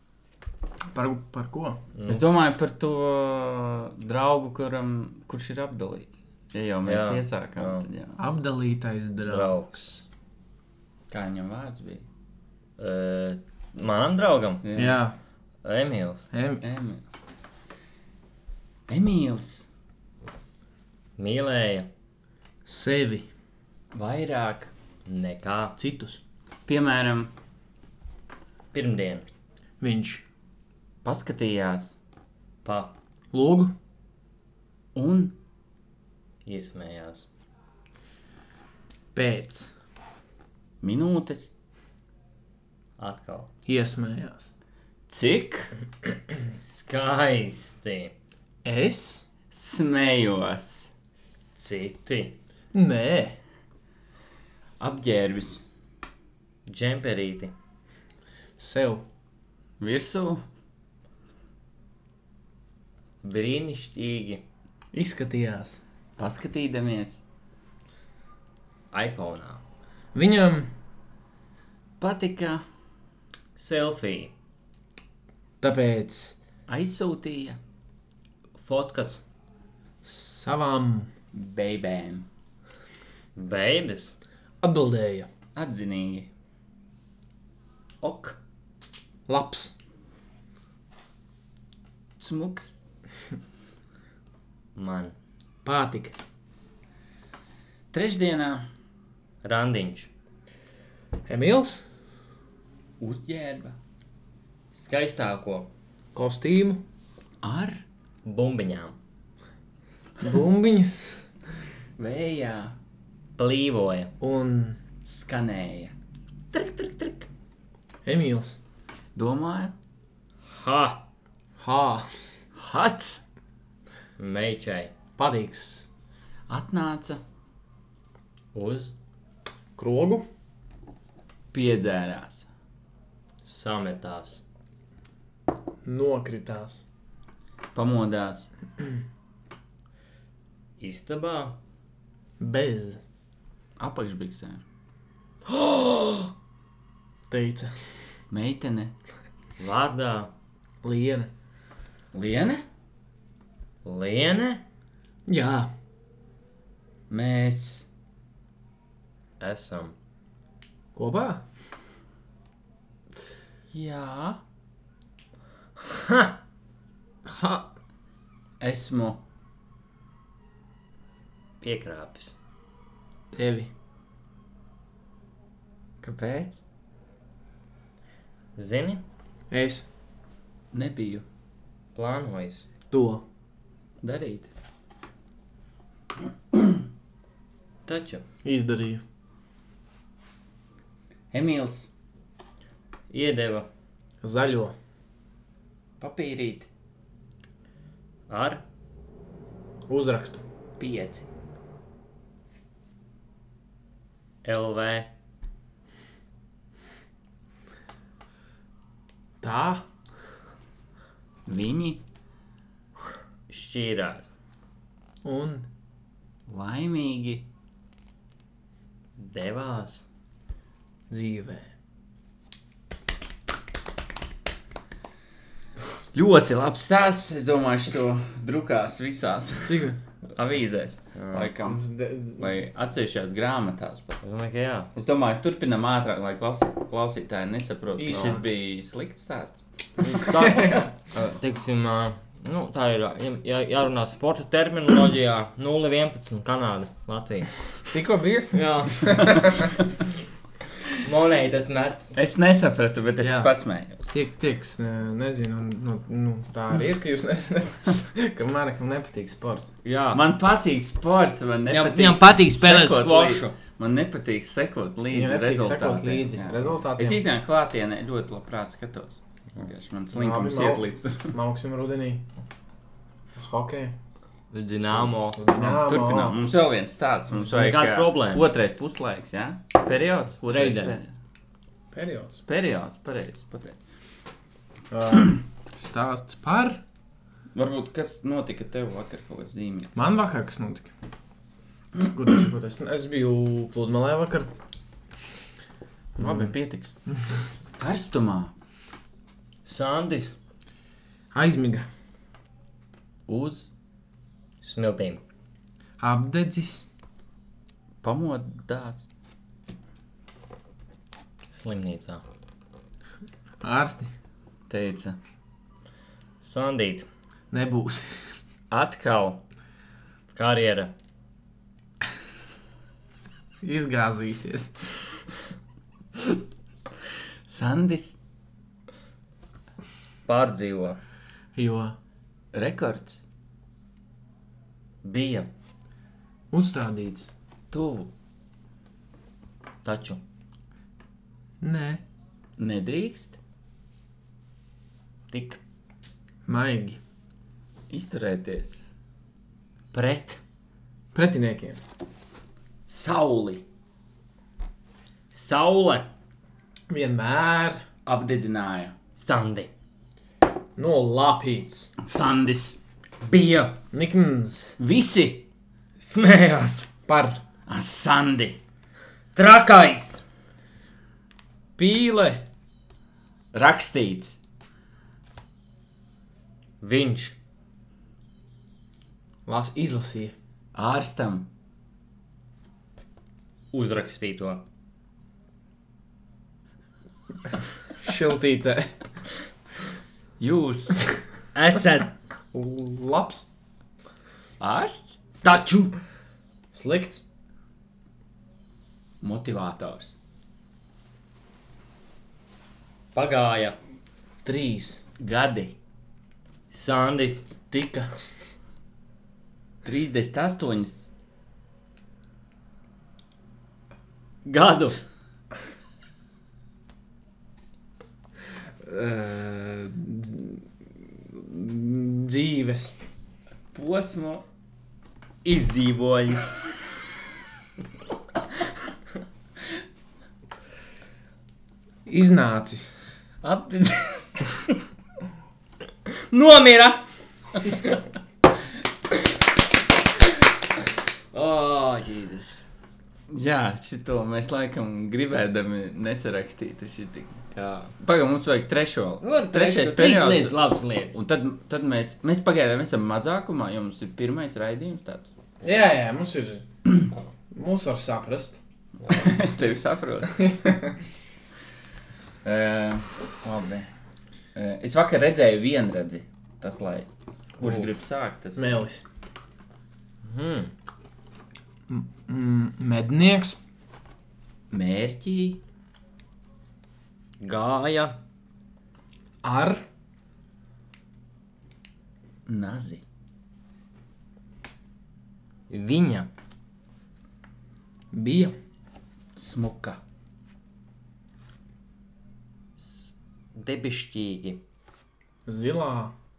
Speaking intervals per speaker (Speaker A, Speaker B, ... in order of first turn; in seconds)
Speaker A: 0.9-1.8, 8.2-9.6, 14.8-15.2, 16.3-16.6, 22.6-23.3, 25.8-26.2, 29.8-30.2, 33.3-33.7, 39.1-39.7, 43.6-44.5, 48.6-49.3, 52.7-53.4, 58.6-59.0, 64.9-65.8, 70.1-70.7, 75.6-76.3, 80.0-81.1, 84.6-85.3, 89.3-89.7, 95.6-96.2, 101.3-101.8, 106.1-106.8, 110.2-111.2, 114.2-114.8, 118.0-118.6, 121.6-122.1, 125.2-125.9, 129.8-130.2, 135.8-136.8, 142.4-143.0, 147.3-147.7, 150.8-151.3, 155.3-155.7, 160.9-161.4, 167.2-167.7, 173.3-173.7, 179.5-179.8, 182.9-183.2, 188.4-189.0, 194.2-194.7, 199.9-200.4, 209.4-209.8, 215.2-215.7, 221.1-221.7, 229.6-230.0, 231.6-232.6, 237.9-238.5, 240.5-240.9, 247.9-249.5, 253.2-253.5, 254.1-259.7, 265.1-267.2, 270.1-272.3, 273.3-273.9, 275.3-276.4, 281.9-282.4, 284.9-286.8, 289.9-290.9, 292.0-294.5, 296.2-296.5, 301.3-301.9, 306.0-306.9, 313.6-314.1, 317.5-318.1, 323.6-325.3, 331.5-331.9, 336.5-337.3, 341.6-342.0, 346.4-347.0, 351.1-351.8, 356.9-357.8, 360.8-361.9, 363.9-364.8, 367.1-367.4, 371.8-372.4, 379.4-380.3, 388.0-389.0, 392.5-393.5, 396.7-397.2, 404.4-405.0, 407.7-408.1, 418.8-423.0, 432.1-432.9, 455.6-456.6, 457.5-458.6, 460.4-461.0, 468.6-469.0, 471.9-473.6, 479.4-479.8, 488.1-488.5, 495.4-496.1
Speaker B: 1.9-2.3, 6.8-7.8, 9.3-10.0, 12.8-14.6, 15.6-16.3, 21.2-21.9, 25.1-25.8, 28.7-29.3, 32.6-32.9, 36.4-37.3, 43.0-43.5, 46.5-48.1, 51.5-52.4, 56.7-57.5, 63.2-64.4, 68.9-69.6, 73.6-74.3, 78.6-79.2, 83.3-84.2, 88.0-88.4, 94.8-95.2, 99.4-100.1, 104.7-105.7, 108.2-109.0, 113.4-114.1, 116.5-117.3, 120.5-121.0, 124.2-124.9, 128.5-128.9, 133.4-134.4, 140.8-141.6, 149.6-150.3, 153.8-154.6, 159.4-159.9, 171.6-172.4, 178.6-179.0, 181.9-182.7, 187.9-188.2, 193.1-193.7, 198.3-198.6, 204.4-205.1, 213.5-214.4, 219.2-220.1, 231.1-231.5, 234.2-234.9, 240.0-247.6, 248.5-249.4, 251.0-252.1, 259.8-260.2, 261.7-263.6, 274.5-275.6, 277.5-278.4, 280.5-281.0, 299.6-300.4, 304.6-305.2, 311.5-312.2, 316.4-317.1, 320.3-320.9, 330.2-331.0, 335.0-335.5, 339.8-340.2, 345.3-345.6, 349.9-350.4, 355.3-356.1, 359.1-359.7, 363.2-363.8, 366.0-366.9, 369.3-370.2, 376.8-377.4, 383.7-384.6, 391.5-392.1, 395.4-395.9, 403.1-403.8, 406.7-407.5, 414.4-415.0, 425.4-426.5, 433.4-434.2, 436.1-437.0, 437.6-438.0, 441.3-442.6, 447.5-447.9, 449.2-451.2, 470.2-470.7, 477.4-478.2, 485.7-486.3, 492.8-494.6
Speaker C: 2.1-8.2, 11.1-12.1, 14.6-15.0, 16.6-17.1, 18.9-19.6, 23.9-24.7, 26.7-27.3, 31.0-31.9, 34.9-35.4, 40.8-41.5, 45.1-45.7, 49.5-50.9, 54.8-55.6, 59.8-60.4, 66.2-67.2, 72.0-72.6, 76.7-77.6, 81.3-82.3, 85.5-86.3, 92.2-92.8, 97.9-98.7, 103.0-103.8, 107.4-107.8, 112.0-112.8, 115.1-115.9, 119.1-119.7, 122.6-123.2, 126.5-127.2, 131.5-132.5, 137.7-138.5, 143.8-144.6, 148.3-148.9, 152.1-152.6, 157.1-157.9, 163.7-164.4, 168.6-169.2, 176.0-176.6, 180.7-181.2, 184.0-184.5, 191.3-191.9, 196.0-196.7, 200.8-201.3, 211.4-212.0, 216.5-217.4, 226.1-231.8, 232.4-234.2, 234.9-239.6, 252.2-254.0, 260.1-271.4, 275.6-281.1, 282.5-283.8, 287.5-289.9, 296.2-296.9, 297.8-298.5, 303.3-303.7, 308.0-309.1, 314.7-315.2, 318.7-319.4, 327.5-328.1, 332.5-333.2, 337.7-338.1, 342.6-343.4, 347.9-348.8, 352.9-353.6, 358.1-358.9, 362.0-362.8, 364.8-365.4, 367.7-368.6, 373.5-374.4, 380.7-381.5, 390.4-391.2, 394.6-395.2, 399.2-400.1, 405.2-405.8, 409.8-411.0, 423.7-424.4, 443.3-447.4, 448.0-450.6, 451.1-455.3, 459.1-460.5, 462.4-463.9, 464.5-468.8, 474.7-475.6, 482.4-483.0, 489.4-490.0